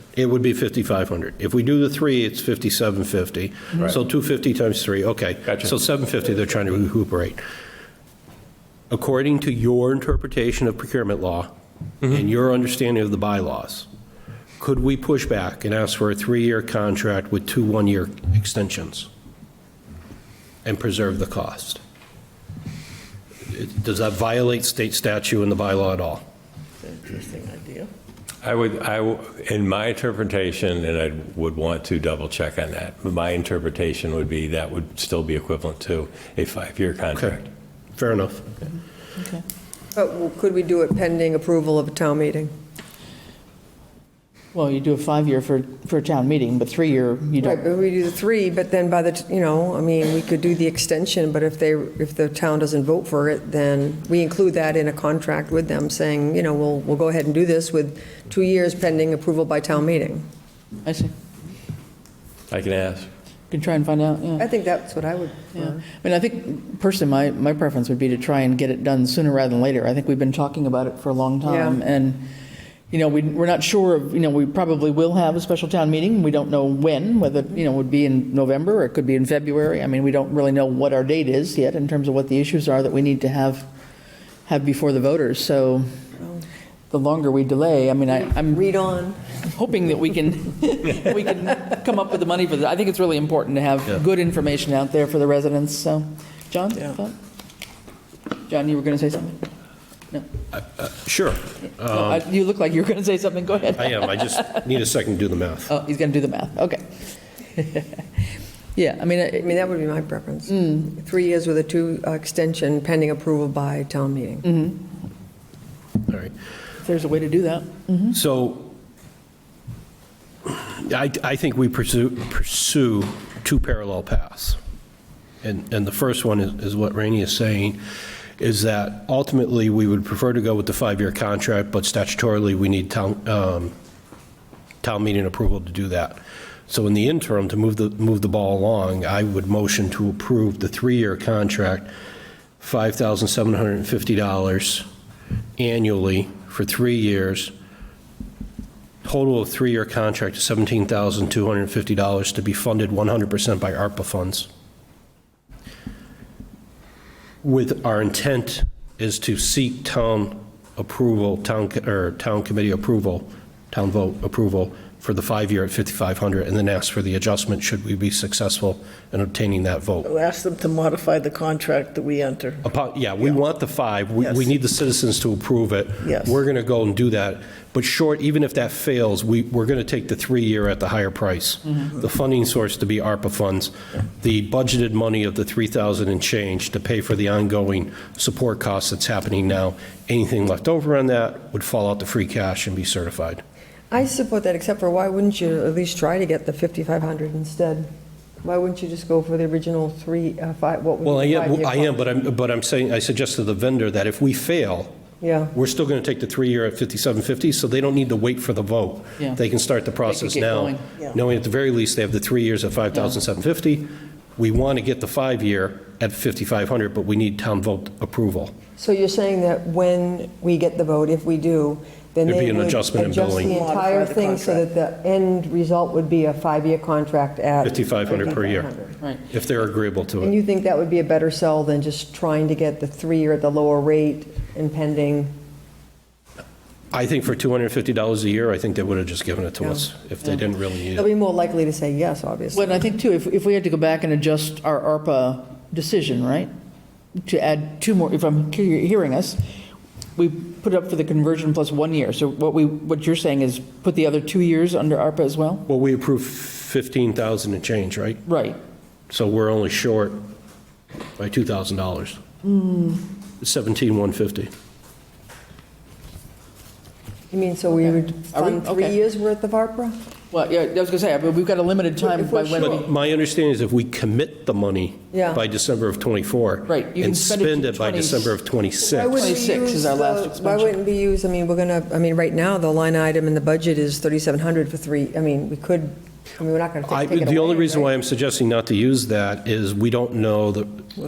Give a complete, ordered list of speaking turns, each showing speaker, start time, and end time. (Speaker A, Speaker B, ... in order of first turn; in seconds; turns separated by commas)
Speaker A: 0.1-7.4, Speaker B: 5.5-5.7, Speaker A: 8.9-11.5, Speaker A: 12.0-13.9, Speaker A: 14.6-19.1, Speaker A: 20.6-21.8, Speaker A: 23.5-26.2, Speaker C: 26.8-27.9, Speaker B: 28.4-37.5, Speaker A: 37.1-37.4, Speaker A: 38.0-38.5, Speaker D: 39.2-39.4, Speaker E: 40.0-42.5, Speaker D: 44.5-47.6, Speaker E: 47.4-60.3, Speaker D: 60.9-61.1, Speaker B: 62.5-63.1, Speaker D: 63.5-64.5, Speaker E: 64.4-65.8, Speaker D: 65.5-72.3, Speaker E: 71.5-71.8, Speaker D: 72.9-83.7, Speaker D: 84.5-85.9, Speaker D: 86.9-88.7, Speaker E: 88.5-89.2, Speaker D: 89.4-97.2, Speaker D: 98.5-99.4, Speaker A: 100.5-102.2, Speaker D: 101.8-104.7, Speaker A: 103.8-105.7, Speaker D: 105.7-107.0, Speaker D: 107.5-109.6, Speaker E: 109.4-114.5, Speaker D: 110.5-110.9, Speaker D: 114.4-114.8, Speaker D: 116.8-118.2, Speaker A: 118.1-118.8, Speaker A: 120.5-124.6, Speaker A: 125.4-127.8, Speaker A: 128.4-133.7, Speaker A: 134.8-141.9, Speaker A: 142.6-144.9, Speaker A: 145.6-147.5, Speaker A: 149.0-154.5, Speaker A: 157.4-170.1, Speaker C: 170.0-172.7, Speaker A: 172.6-193.4, Speaker C: 176.0-176.4, Speaker E: 193.9-197.9, Speaker E: 198.4-202.0, Speaker A: 201.1-204.9, Speaker E: 205.2-205.5, Speaker A: 205.5-218.5, Speaker D: 210.0-210.9, Speaker E: 218.8-229.0, Speaker A: 222.3-223.5, Speaker C: 223.3-224.7, Speaker A: 227.6-228.7, Speaker A: 229.3-230.4, Speaker E: 230.2-235.3, Speaker A: 236.9-241.1, Speaker E: 240.9-242.9, Speaker D: 242.5-246.5, Speaker D: 247.2-249.4, Speaker D: 250.2-255.7, Speaker A: 255.7-258.2, Speaker D: 258.3-258.6, Speaker A: 259.1-260.2, Speaker A: 261.2-262.2, Speaker D: 262.4-263.1, Speaker A: 263.4-264.5, Speaker E: 267.3-270.0, Speaker D: 267.7-269.0, Speaker D: 270.3-272.9, Speaker E: 272.0-272.8, Speaker A: 272.6-279.4, Speaker E: 275.1-275.4, Speaker D: 276.7-278.4, Speaker E: 278.9-287.9, Speaker D: 279.1-280.8, Speaker A: 286.9-290.9